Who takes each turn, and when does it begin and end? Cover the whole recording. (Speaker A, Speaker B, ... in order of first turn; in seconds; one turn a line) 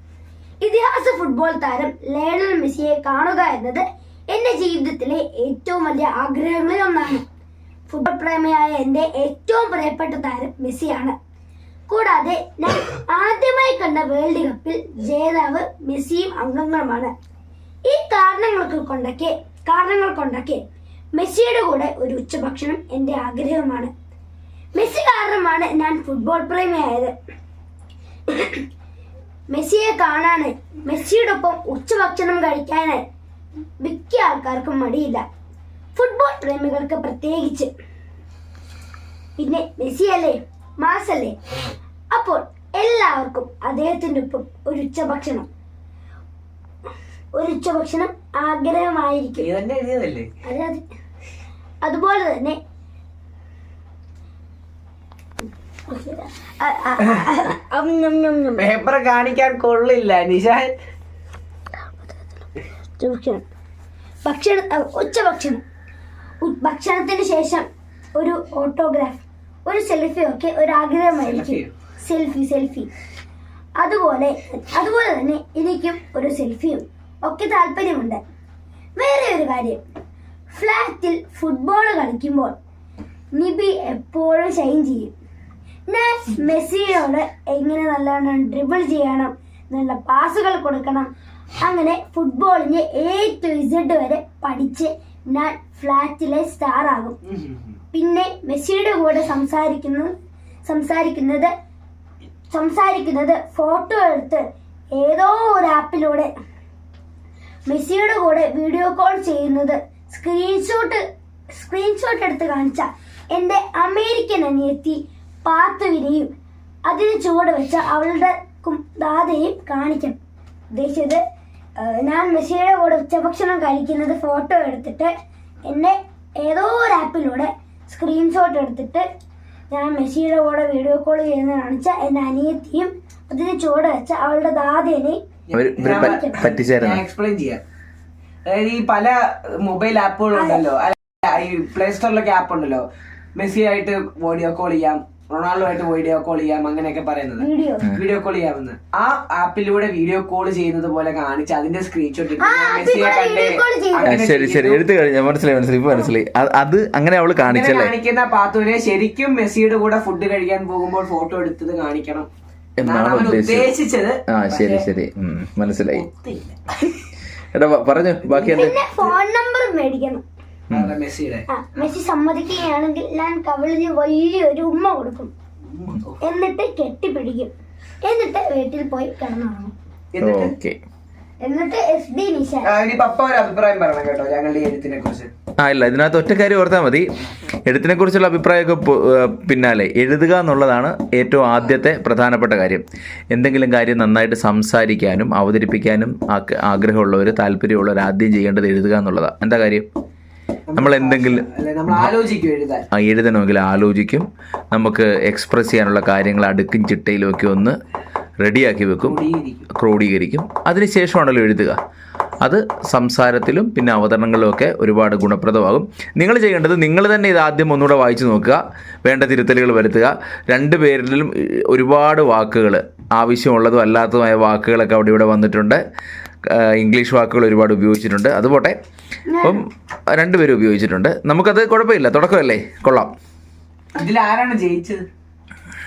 Speaker A: 0.6-7.2
Speaker A: 7.9-11.2
Speaker A: 11.9-17.1
Speaker A: 17.9-20.6
Speaker A: 21.1-23.9
Speaker A: 24.7-27.1
Speaker A: 28.3-28.6
Speaker A: 29.5-33.0
Speaker A: 33.8-35.2
Speaker A: 35.9-37.7
Speaker A: 39.4-41.4
Speaker A: 42.1-45.5
Speaker A: 47.3-49.5
Speaker B: 49.4-50.3
Speaker A: 50.4-50.8
Speaker A: 51.8-52.6
Speaker A: 55.9-58.6
Speaker B: 58.6-60.7
Speaker A: 61.9-62.4
Speaker A: 63.0-63.4
Speaker A: 64.2-65.6
Speaker A: 66.4-67.7
Speaker A: 68.2-72.9
Speaker B: 71.2-71.7
Speaker A: 73.8-78.2
Speaker A: 79.0-79.8
Speaker A: 80.5-82.5
Speaker A: 83.3-85.1
Speaker A: 85.9-91.1
Speaker A: 91.6-97.2
Speaker B: 97.3-97.7
Speaker A: 97.9-100.1
Speaker A: 100.6-101.5
Speaker A: 102.5-104.4
Speaker A: 105.0-106.3
Speaker A: 107.7-111.0
Speaker A: 111.5-116.3
Speaker A: 116.8-120.2
Speaker A: 120.7-121.2
Speaker A: 121.8-125.1
Speaker A: 125.7-129.0
Speaker A: 129.7-135.2
Speaker B: 135.5-137.6
Speaker C: 135.5-137.0
Speaker A: 135.8-136.4
Speaker B: 138.4-142.8
Speaker A: 140.3-140.6
Speaker B: 143.3-154.8
Speaker A: 147.4-147.9
Speaker A: 152.4-154.2
Speaker C: 154.0-157.9
Speaker B: 157.4-162.3
Speaker C: 162.8-163.7
Speaker B: 162.8-164.8
Speaker C: 164.3-166.0
Speaker B: 165.9-166.9
Speaker C: 167.5-168.7
Speaker B: 168.2-169.1
Speaker A: 168.5-170.2
Speaker B: 170.7-171.5
Speaker A: 171.5-175.3
Speaker B: 175.7-176.2
Speaker A: 176.2-177.5
Speaker A: 178.0-179.7
Speaker B: 180.1-180.5
Speaker C: 180.2-180.8
Speaker A: 181.4-182.7
Speaker B: 182.6-185.3
Speaker C: 185.6-187.1
Speaker C: 187.7-199.9
Speaker B: 200.7-202.8
Speaker C: 200.8-202.1
Speaker C: 202.9-207.8
Speaker C: 208.4-209.2
Speaker B: 209.0-209.7
Speaker C: 209.7-211.8
Speaker C: 212.4-225.8
Speaker C: 226.5-228.8
Speaker A: 229.3-229.6
Speaker C: 229.4-233.1
Speaker B: 233.9-235.0